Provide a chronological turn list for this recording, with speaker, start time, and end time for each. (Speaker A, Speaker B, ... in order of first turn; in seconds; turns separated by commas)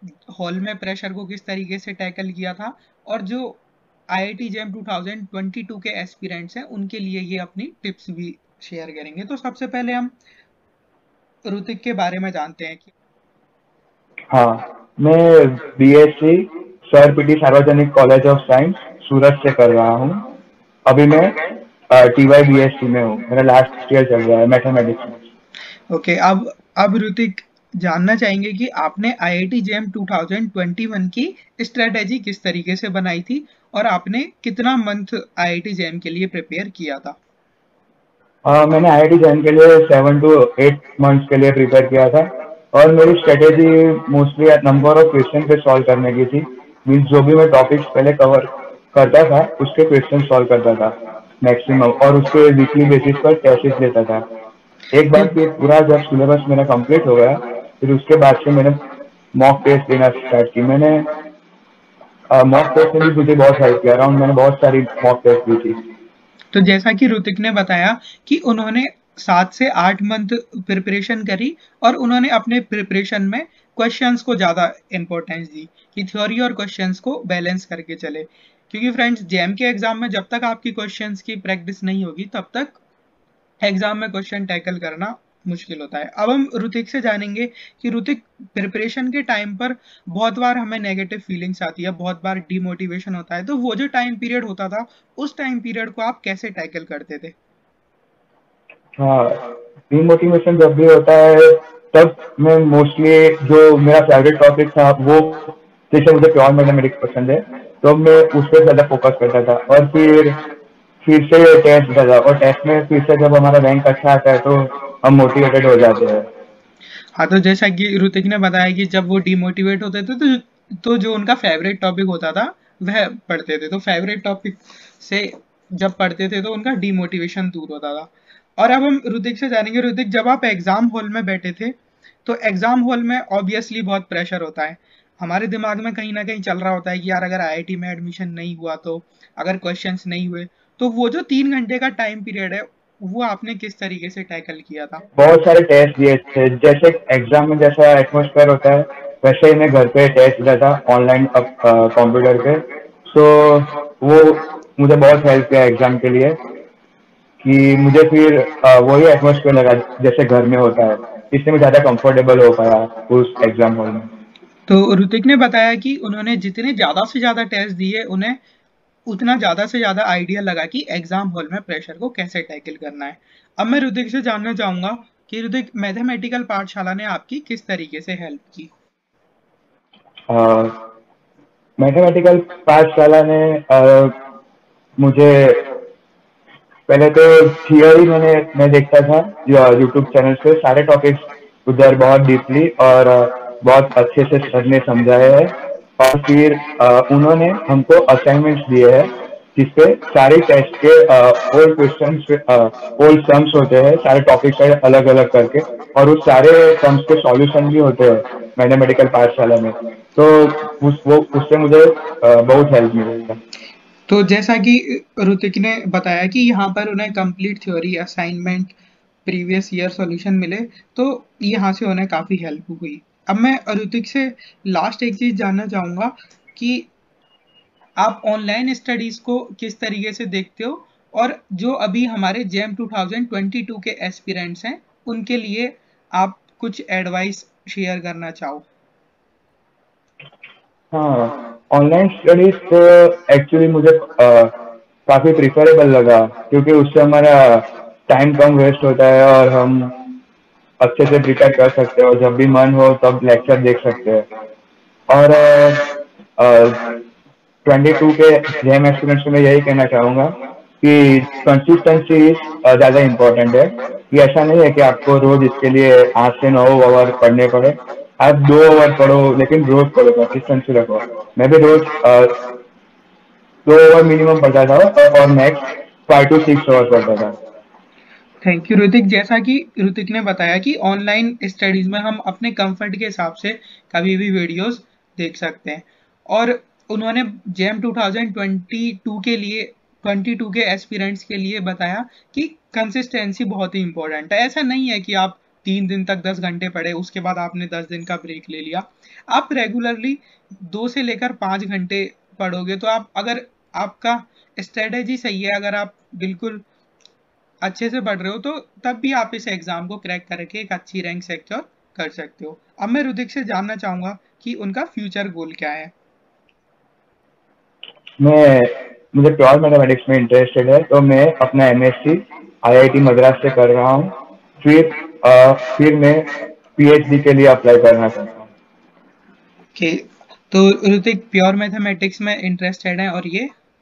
Speaker A: 0.3-10.1, Speaker A: 11.4-12.9, Speaker B: 14.3-20.3, Speaker B: 20.9-21.4, Speaker B: 21.9-25.2, Speaker A: 25.9-37.2, Speaker B: 38.5-54.2, Speaker B: 54.9-58.8, Speaker B: 59.3-61.1, Speaker B: 62.3-65.8, Speaker A: 66.5-82.8, Speaker A: 83.6-97.3, Speaker B: 99.0-110.4, Speaker B: 111.0-116.3, Speaker A: 117.1-145.0, Speaker B: 145.2-156.4, Speaker B: 157.4-164.1, Speaker A: 164.7-168.4, Speaker A: 169.1-178.7, Speaker B: 180.3-180.8, Speaker B: 181.8-184.1, Speaker B: 185.0-185.7, Speaker B: 186.9-213.4, Speaker A: 214.1-226.9, Speaker A: 228.0-238.7, Speaker B: 240.9-244.5, Speaker B: 245.1-249.9, Speaker B: 250.8-254.3, Speaker B: 255.1-256.9, Speaker B: 257.6-272.4, Speaker B: 273.6-277.3, Speaker A: 278.4-306.6, Speaker A: 307.6-315.9, Speaker B: 318.2-328.5, Speaker A: 329.7-333.5